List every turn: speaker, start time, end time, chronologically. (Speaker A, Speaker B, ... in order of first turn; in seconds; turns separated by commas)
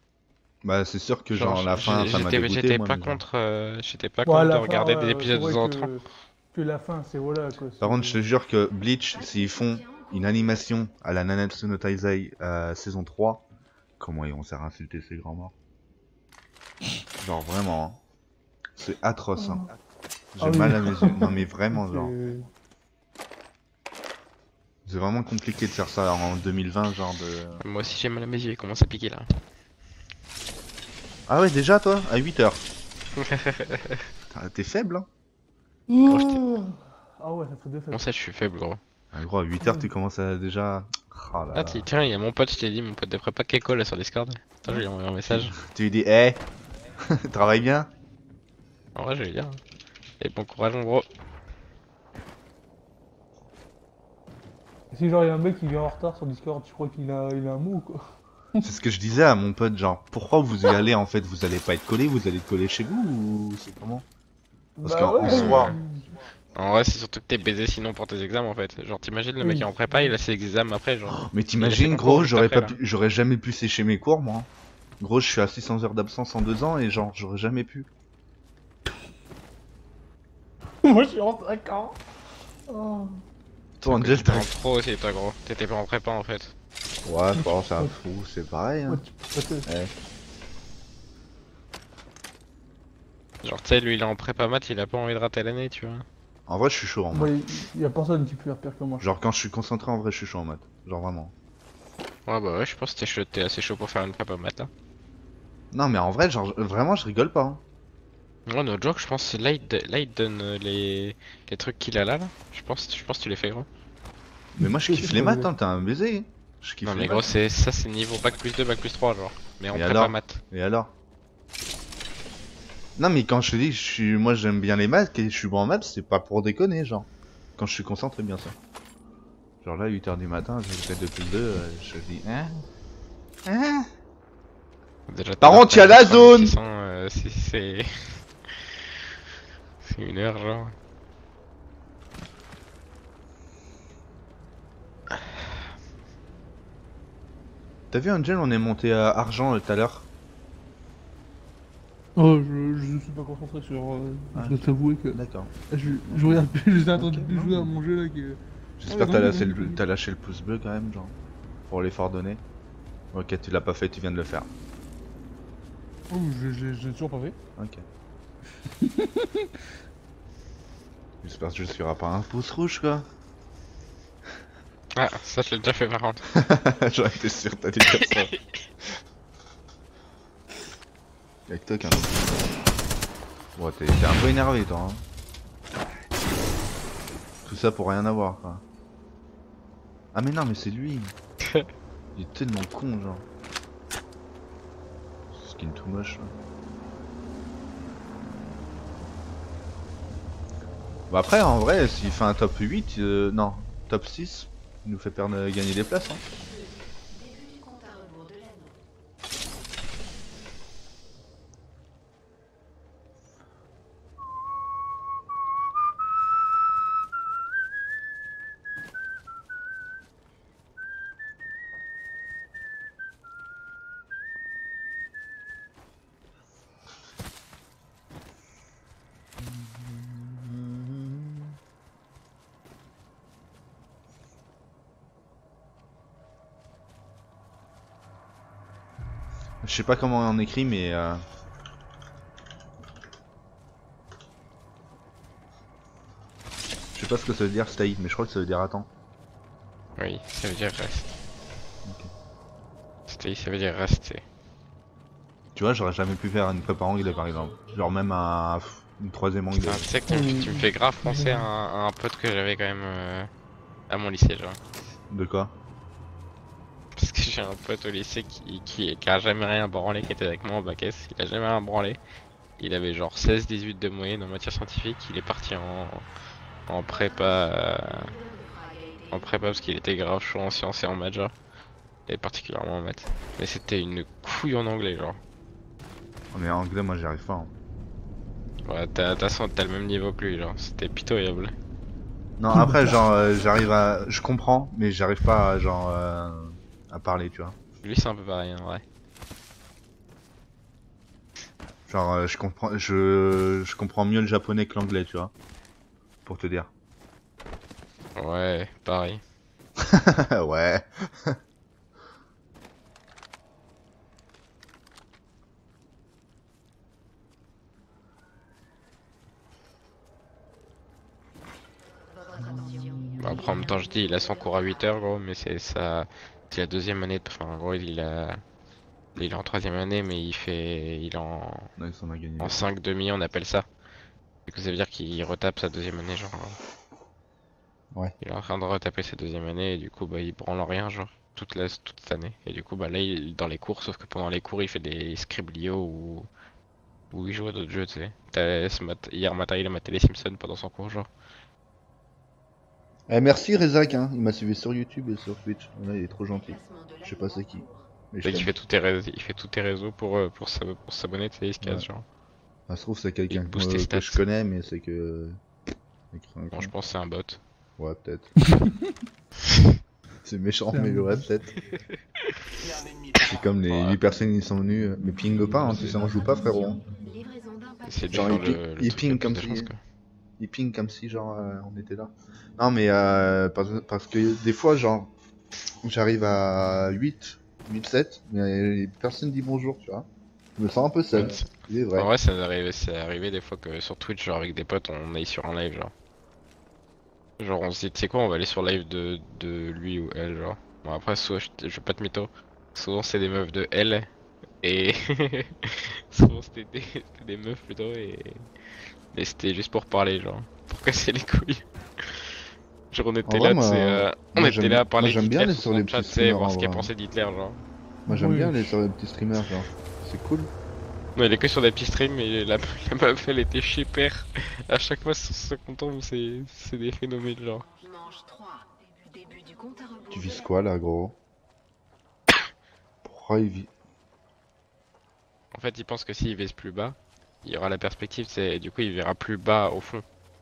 Speaker A: 0.6-3.2, Speaker B: 1.3-5.9, Speaker C: 4.2-8.2, Speaker A: 7.8-13.4, Speaker D: 9.1-10.6, Speaker A: 14.0-15.5, Speaker A: 17.2-18.0, Speaker A: 18.8-19.7, Speaker C: 19.4-19.7, Speaker A: 20.3-22.1, Speaker C: 20.4-22.5, Speaker A: 24.9-27.6, Speaker B: 27.6-29.4, Speaker A: 31.3-32.6, Speaker B: 33.1-34.1, Speaker A: 34.3-35.1, Speaker C: 35.9-38.0, Speaker A: 36.0-36.4, Speaker B: 36.1-36.4, Speaker B: 37.9-38.8, Speaker A: 39.1-41.9, Speaker C: 39.6-39.9, Speaker B: 41.5-45.5, Speaker A: 45.3-46.4, Speaker A: 47.0-47.9, Speaker B: 48.9-49.6, Speaker B: 50.2-51.0, Speaker C: 54.9-58.7, Speaker A: 58.6-64.0, Speaker C: 64.8-66.0, Speaker A: 64.8-65.7, Speaker B: 65.2-65.8, Speaker B: 66.5-72.8, Speaker C: 69.4-70.1, Speaker A: 71.3-74.5, Speaker A: 75.0-77.9, Speaker C: 80.8-82.0, Speaker C: 82.7-83.2, Speaker A: 83.8-84.5, Speaker B: 83.8-86.5, Speaker A: 87.0-89.0, Speaker C: 87.4-87.9, Speaker C: 88.9-89.7, Speaker A: 89.6-89.9, Speaker B: 93.4-96.0, Speaker A: 96.5-97.3, Speaker C: 97.1-99.1, Speaker A: 99.0-101.3, Speaker B: 102.3-104.7, Speaker A: 105.7-107.6, Speaker B: 108.5-113.7, Speaker A: 114.6-117.3, Speaker C: 114.6-115.5, Speaker B: 116.8-120.4, Speaker A: 119.7-120.9, Speaker A: 123.0-128.6, Speaker A: 129.6-132.6, Speaker A: 133.4-133.9, Speaker B: 135.1-138.7, Speaker A: 135.4-136.6, Speaker B: 139.8-140.7, Speaker A: 147.9-150.1, Speaker C: 152.2-159.8, Speaker A: 154.3-155.5, Speaker A: 156.0-157.7, Speaker A: 158.8-161.1, Speaker A: 161.7-162.4, Speaker A: 163.1-164.5, Speaker C: 166.1-167.3, Speaker A: 167.6-167.8, Speaker C: 168.8-169.5, Speaker A: 171.2-173.1, Speaker B: 174.9-176.2, Speaker A: 176.3-178.3, Speaker B: 177.9-178.3, Speaker A: 181.5-182.6, Speaker A: 183.6-185.0, Speaker A: 187.4-188.6, Speaker A: 190.1-191.1, Speaker A: 192.1-193.2, Speaker A: 195.3-196.3, Speaker A: 201.1-206.2, Speaker D: 206.1-208.8, Speaker A: 229.4-231.6, Speaker A: 239.6-241.2, Speaker A: 246.9-248.9, Speaker B: 250.0-251.2, Speaker A: 251.8-252.1, Speaker B: 253.1-254.2, Speaker A: 255.5-259.9, Speaker D: 257.0-257.9, Speaker B: 259.6-263.3, Speaker C: 260.1-261.5, Speaker B: 263.9-264.6, Speaker A: 265.1-265.5, Speaker B: 266.9-272.0, Speaker B: 272.6-276.0, Speaker B: 276.7-278.1, Speaker D: 276.9-279.5, Speaker B: 279.1-281.3, Speaker B: 282.1-285.2, Speaker A: 286.3-287.5, Speaker B: 288.6-291.6, Speaker A: 292.4-297.6, Speaker C: 292.5-293.0, Speaker B: 297.8-298.8, Speaker A: 301.9-305.3, Speaker A: 306.2-306.7, Speaker B: 308.1-309.2, Speaker A: 309.8-311.4, Speaker D: 322.1-325.0, Speaker B: 323.2-328.4, Speaker B: 329.1-331.7, Speaker A: 331.8-332.6, Speaker B: 332.4-333.6, Speaker B: 334.5-336.6, Speaker B: 338.2-346.3, Speaker B: 347.1-351.1, Speaker A: 353.1-358.5, Speaker D: 356.3-357.9, Speaker B: 358.2-362.0, Speaker A: 361.6-361.9, Speaker A: 362.7-365.4, Speaker B: 363.3-364.2, Speaker A: 366.1-366.7, Speaker B: 366.5-367.4, Speaker A: 367.8-368.3, Speaker A: 370.2-371.6, Speaker C: 370.7-371.2, Speaker A: 373.2-376.8, Speaker B: 373.7-374.0, Speaker D: 376.3-378.6, Speaker B: 377.9-379.8, Speaker A: 378.1-379.7, Speaker A: 380.4-385.1, Speaker A: 385.8-392.1, Speaker B: 391.1-395.9, Speaker B: 397.4-404.1, Speaker B: 404.6-408.4, Speaker B: 409.1-412.3, Speaker B: 412.9-417.6, Speaker A: 413.2-416.9, Speaker C: 418.1-418.7, Speaker A: 418.1-420.5, Speaker B: 421.1-427.7, Speaker D: 427.7-430.5, Speaker A: 430.1-431.1, Speaker A: 433.0-433.7, Speaker B: 435.5-440.0